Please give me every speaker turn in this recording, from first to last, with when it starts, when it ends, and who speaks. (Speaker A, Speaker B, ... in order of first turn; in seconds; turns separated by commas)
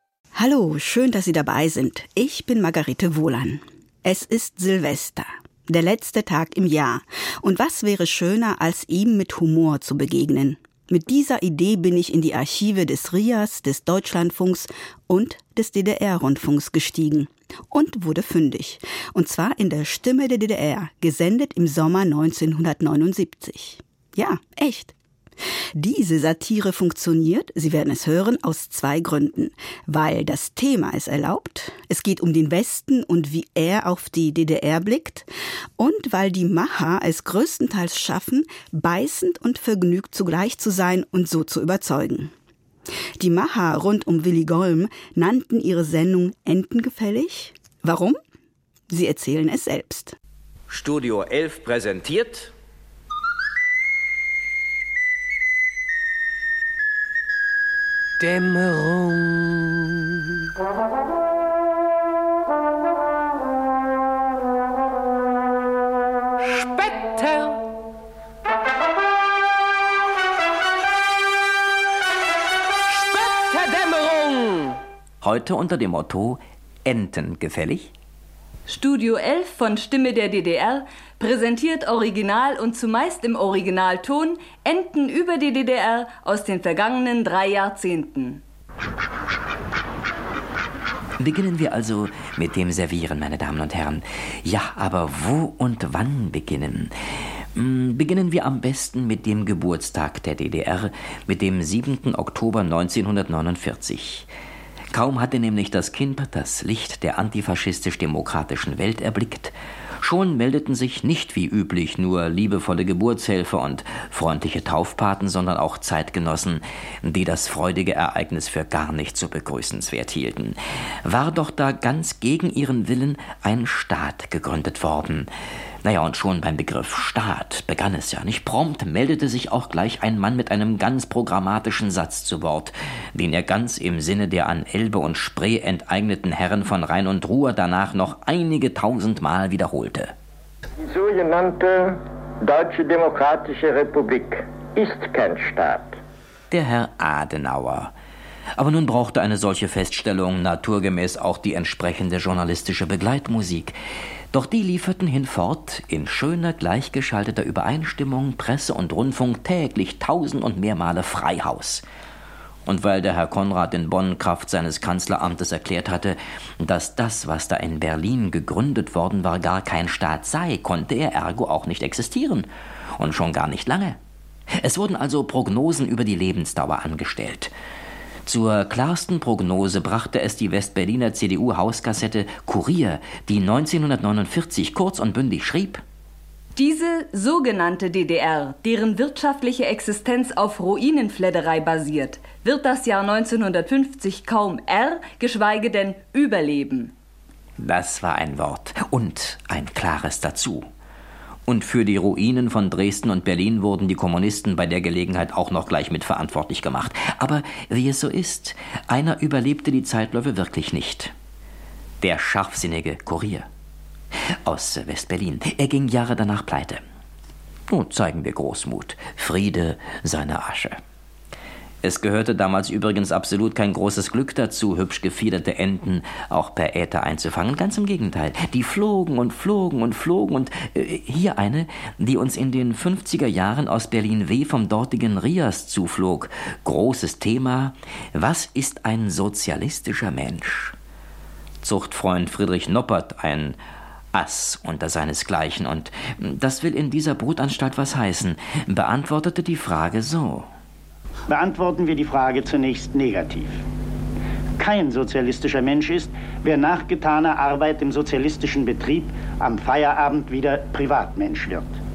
Speaker A: 0.3-24.9, Speaker A: 25.8-35.3, Speaker A: 35.8-42.3, Speaker A: 43.2-48.2, Speaker A: 48.9-50.1, Speaker B: 50.7-52.5, Speaker C: 58.2-59.5, Speaker C: 66.6-67.4, Speaker C: 73.2-74.6, Speaker B: 75.2-77.9, Speaker D: 78.7-88.4, Speaker B: 91.2-96.9, Speaker B: 97.5-104.3, Speaker B: 104.9-125.3, Speaker B: 125.8-140.1, Speaker E: 140.8-145.9, Speaker B: 146.5-147.9, Speaker B: 148.6-153.7, Speaker B: 154.3-161.8, Speaker B: 162.7-174.0, Speaker B: 174.6-177.5, Speaker B: 178.2-185.8, Speaker D: 186.6-196.9, Speaker B: 197.6-200.7, Speaker B: 201.5-211.1, Speaker B: 212.0-213.5, Speaker B: 214.4-216.8, Speaker B: 217.7-220.8, Speaker B: 221.8-240.7, Speaker B: 241.6-243.6, Speaker B: 244.1-250.4, Speaker F: 251.3-253.6, Speaker F: 254.6-261.8